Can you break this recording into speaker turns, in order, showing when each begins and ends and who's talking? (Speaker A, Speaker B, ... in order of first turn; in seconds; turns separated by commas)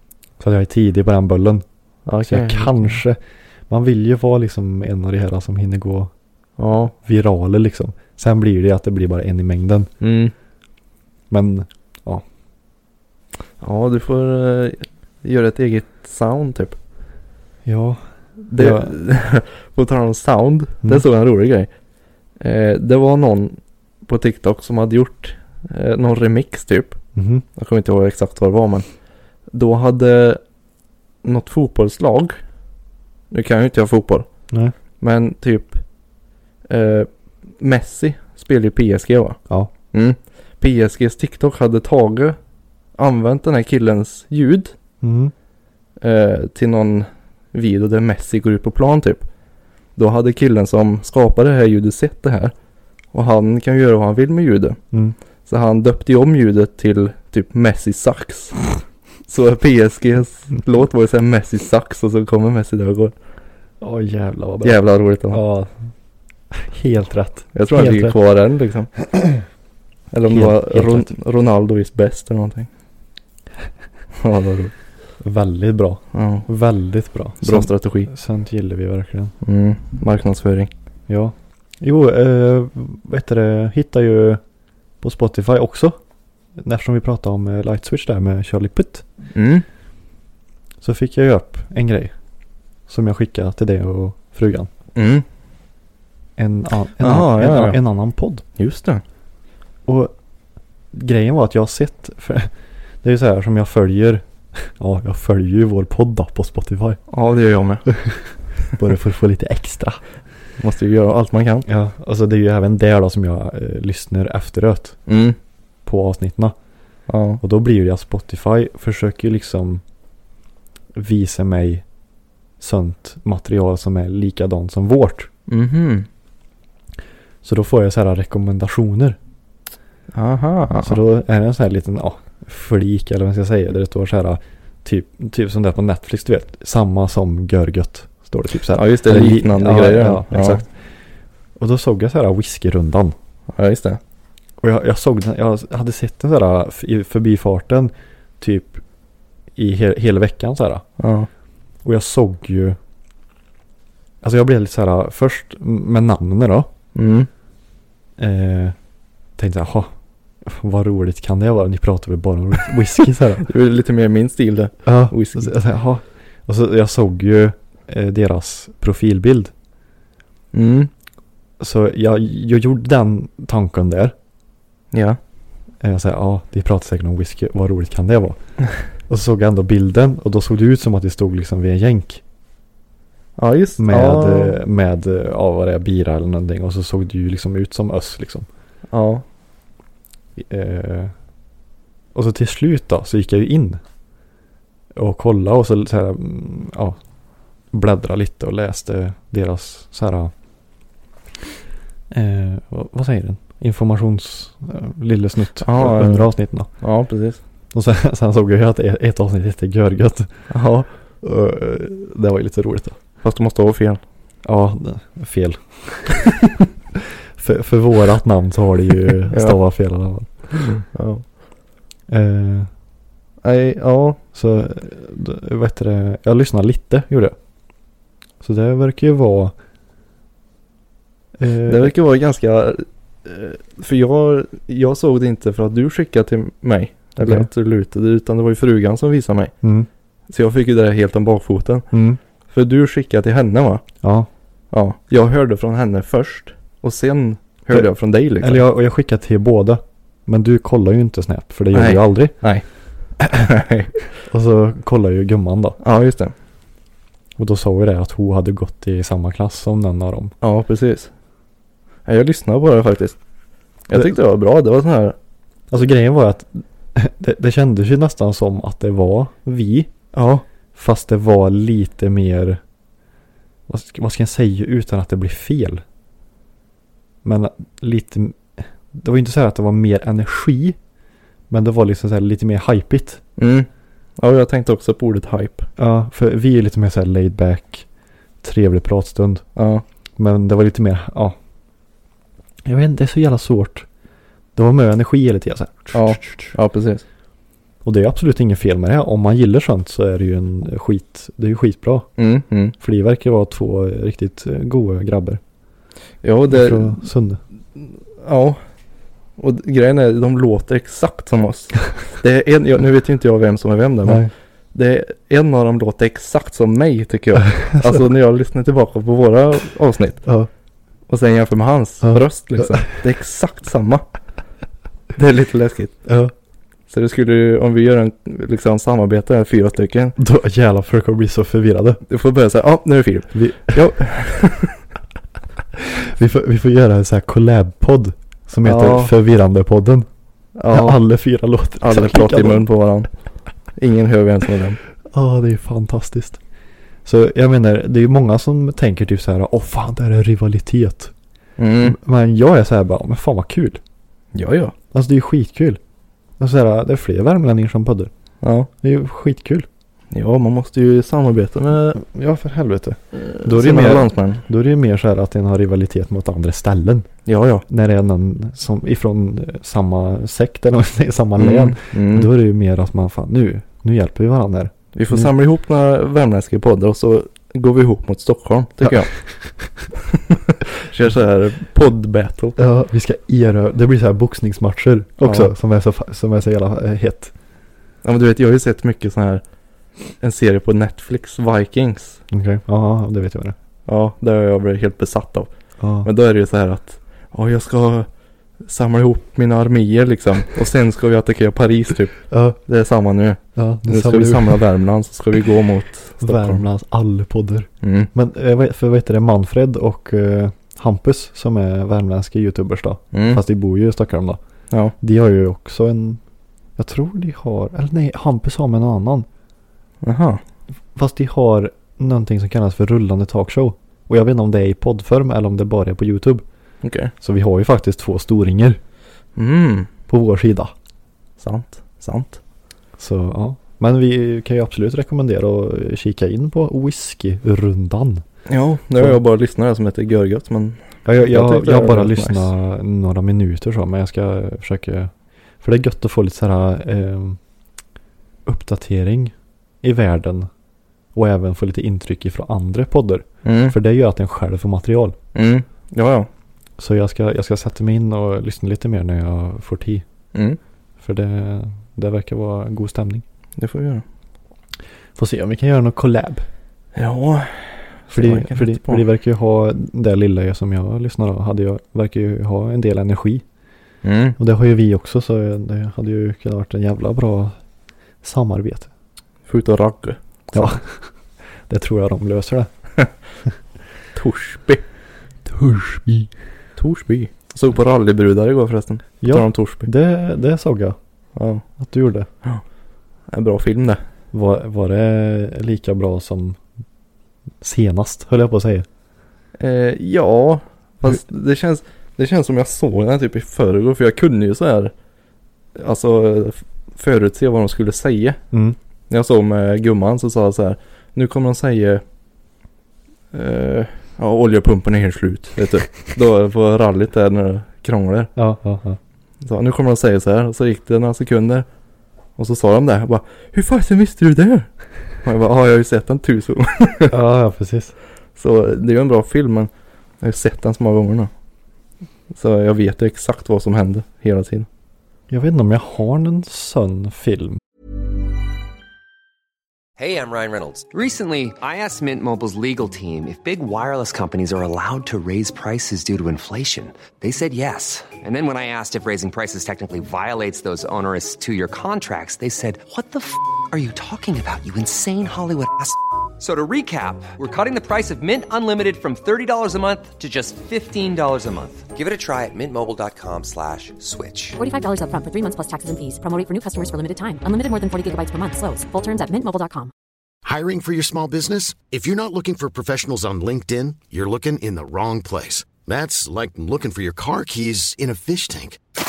Speaker A: 0.4-1.6, Speaker B: 2.0-3.0, Speaker A: 2.2-6.1, Speaker B: 6.6-6.9, Speaker A: 7.0-9.9, Speaker B: 10.0-10.3, Speaker A: 11.3-12.2, Speaker B: 13.6-16.8, Speaker A: 17.6-18.9, Speaker B: 18.5-21.7, Speaker B: 22.4-27.0, Speaker A: 27.1-27.4, Speaker B: 27.6-28.9, Speaker B: 29.5-30.4, Speaker B: 31.2-32.4, Speaker B: 33.3-34.2, Speaker B: 35.0-35.8, Speaker B: 36.7-37.1, Speaker B: 37.6-39.4, Speaker B: 39.9-42.4, Speaker B: 43.0-44.7, Speaker A: 45.0-45.3, Speaker B: 46.0-49.2, Speaker B: 50.0-52.5, Speaker B: 53.1-54.8, Speaker B: 55.5-58.7, Speaker B: 59.3-63.1, Speaker A: 63.8-65.7, Speaker B: 64.6-65.4, Speaker A: 66.5-68.2, Speaker B: 67.5-68.9, Speaker A: 69.1-69.4, Speaker B: 70.1-72.7, Speaker A: 70.3-71.1, Speaker B: 74.2-74.7, Speaker A: 75.2-79.3, Speaker B: 76.1-76.5, Speaker B: 77.4-78.1, Speaker B: 79.4-80.7, Speaker A: 81.1-84.4, Speaker A: 85.0-86.0, Speaker A: 86.6-89.0, Speaker B: 89.3-89.6, Speaker A: 90.8-92.1, Speaker A: 92.9-94.7, Speaker B: 95.0-95.2, Speaker A: 96.4-98.4, Speaker B: 97.0-97.8, Speaker B: 98.6-99.0, Speaker A: 99.8-100.1, Speaker A: 100.9-102.5, Speaker A: 103.0-107.0, Speaker B: 107.1-107.9, Speaker A: 107.9-110.0, Speaker B: 110.6-111.7, Speaker A: 111.7-115.0, Speaker B: 115.1-115.3, Speaker A: 115.8-116.5, Speaker B: 117.1-117.4, Speaker A: 117.4-119.8, Speaker A: 120.9-121.8, Speaker A: 122.6-125.3, Speaker B: 125.5-126.1, Speaker A: 127.4-129.2, Speaker B: 130.1-131.0, Speaker A: 130.8-140.7, Speaker B: 138.7-140.6, Speaker A: 141.6-143.1, Speaker B: 143.5-144.0, Speaker A: 144.6-148.8, Speaker A: 149.5-150.8, Speaker B: 151.0-151.3, Speaker A: 151.8-152.8, Speaker A: 154.2-156.7, Speaker B: 156.9-157.3, Speaker A: 158.2-158.8, Speaker A: 159.4-163.4, Speaker B: 163.4-165.5, Speaker A: 164.8-169.5, Speaker B: 170.5-170.9, Speaker A: 171.6-174.1, Speaker B: 174.9-175.2, Speaker A: 175.8-178.4, Speaker A: 179.1-182.2, Speaker B: 183.4-184.6, Speaker A: 183.8-188.5, Speaker B: 188.9-189.2, Speaker A: 190.3-191.1, Speaker A: 192.1-193.8, Speaker A: 194.9-197.0, Speaker A: 197.7-200.3, Speaker A: 202.1-206.7, Speaker B: 205.6-207.4, Speaker A: 207.7-210.3, Speaker B: 210.5-210.9, Speaker A: 211.2-213.0, Speaker B: 213.2-214.0, Speaker A: 214.4-216.3, Speaker A: 216.9-220.5, Speaker B: 219.3-219.6, Speaker B: 220.7-221.2, Speaker A: 222.1-222.7, Speaker B: 223.4-224.2, Speaker A: 224.3-227.3, Speaker A: 228.4-229.5, Speaker A: 231.4-231.9, Speaker B: 231.7-239.5, Speaker A: 237.2-237.5, Speaker A: 239.6-239.9, Speaker B: 240.3-241.9, Speaker A: 241.9-242.2, Speaker B: 242.5-243.8, Speaker A: 244.0-244.3, Speaker B: 244.7-248.6, Speaker A: 248.4-252.3, Speaker B: 251.7-252.6, Speaker B: 253.2-253.9, Speaker A: 254.3-255.8, Speaker B: 255.8-256.3, Speaker A: 257.4-260.3, Speaker B: 260.4-261.1, Speaker B: 262.1-263.2, Speaker B: 263.9-265.1, Speaker A: 265.7-269.9, Speaker B: 270.1-270.4, Speaker A: 270.7-272.6, Speaker A: 273.7-275.8, Speaker A: 277.2-280.8, Speaker A: 281.5-283.2, Speaker B: 283.4-283.7, Speaker B: 284.2-285.7, Speaker A: 285.8-287.9, Speaker A: 288.4-289.4, Speaker B: 289.6-289.8, Speaker A: 290.2-291.4, Speaker A: 292.6-293.9, Speaker A: 294.6-296.5, Speaker B: 295.9-297.0, Speaker A: 297.8-302.1, Speaker B: 302.2-302.7, Speaker A: 302.8-305.4, Speaker B: 306.2-307.0, Speaker A: 306.5-307.4, Speaker B: 307.8-308.6, Speaker B: 309.4-320.2, Speaker A: 314.0-314.3, Speaker B: 321.1-324.0, Speaker A: 322.0-322.8, Speaker B: 325.1-326.0, Speaker A: 326.1-326.3, Speaker B: 326.9-330.2, Speaker A: 330.2-332.0, Speaker B: 332.1-334.8, Speaker A: 333.3-334.0, Speaker A: 335.8-340.1, Speaker B: 338.6-339.1, Speaker B: 340.6-341.0, Speaker A: 340.7-342.6, Speaker B: 341.8-343.1, Speaker B: 343.8-344.8, Speaker A: 345.1-346.4, Speaker A: 347.0-351.1, Speaker B: 351.6-352.0, Speaker A: 351.8-353.8, Speaker B: 354.3-354.7, Speaker A: 354.9-355.8, Speaker A: 356.4-358.1, Speaker B: 358.4-358.7, Speaker A: 358.8-359.7, Speaker B: 360.1-362.0, Speaker A: 361.9-367.1, Speaker B: 363.2-364.4, Speaker B: 367.3-367.6, Speaker A: 367.7-375.3, Speaker B: 371.4-372.3, Speaker B: 374.9-379.1, Speaker A: 378.8-379.1, Speaker B: 380.1-382.6, Speaker A: 382.6-387.3, Speaker B: 385.2-385.5, Speaker B: 388.0-389.4, Speaker B: 390.2-392.2, Speaker A: 392.3-393.6, Speaker B: 393.9-395.5, Speaker A: 395.8-396.1, Speaker B: 396.0-398.1, Speaker B: 398.6-406.6, Speaker A: 402.3-402.6, Speaker A: 403.6-404.6, Speaker A: 406.2-414.4, Speaker B: 407.8-408.1, Speaker B: 413.1-413.4, Speaker A: 415.0-416.2, Speaker A: 416.8-419.3, Speaker B: 420.0-420.4, Speaker A: 420.9-426.4, Speaker B: 426.8-427.1, Speaker A: 427.2-428.8, Speaker B: 429.4-429.9, Speaker A: 430.1-430.7, Speaker B: 431.4-432.4, Speaker A: 433.0-438.2, Speaker B: 438.5-442.5, Speaker A: 441.0-447.4, Speaker A: 448.4-450.5, Speaker A: 451.1-455.2, Speaker B: 453.4-453.8, Speaker B: 455.3-456.3, Speaker A: 456.8-460.0, Speaker A: 461.0-463.2, Speaker B: 463.6-464.0, Speaker A: 465.1-466.4, Speaker B: 466.9-469.0, Speaker A: 468.1-473.4, Speaker B: 474.0-474.4, Speaker A: 474.4-477.6, Speaker A: 478.2-478.9, Speaker B: 479.5-480.7, Speaker A: 480.5-481.1, Speaker A: 481.7-482.7, Speaker B: 484.1-484.8, Speaker A: 485.4-486.3, Speaker B: 486.8-489.9, Speaker A: 489.2-491.0, Speaker B: 491.4-491.6, Speaker A: 491.8-492.3, Speaker B: 493.3-494.0, Speaker A: 494.3-496.6, Speaker A: 497.6-498.9, Speaker B: 499.6-504.9, Speaker B: 505.8-508.4, Speaker A: 508.5-508.8, Speaker B: 509.1-512.0, Speaker B: 513.3-518.3, Speaker A: 518.4-519.0, Speaker B: 519.4-521.6, Speaker B: 522.4-524.7, Speaker B: 525.2-527.1, Speaker A: 527.1-527.9, Speaker B: 528.4-529.7, Speaker B: 530.2-531.3, Speaker B: 532.3-534.7, Speaker A: 535.3-537.6, Speaker C: 540.0-564.6, Speaker D: 564.6-569.9, Speaker E: 570.4-578.8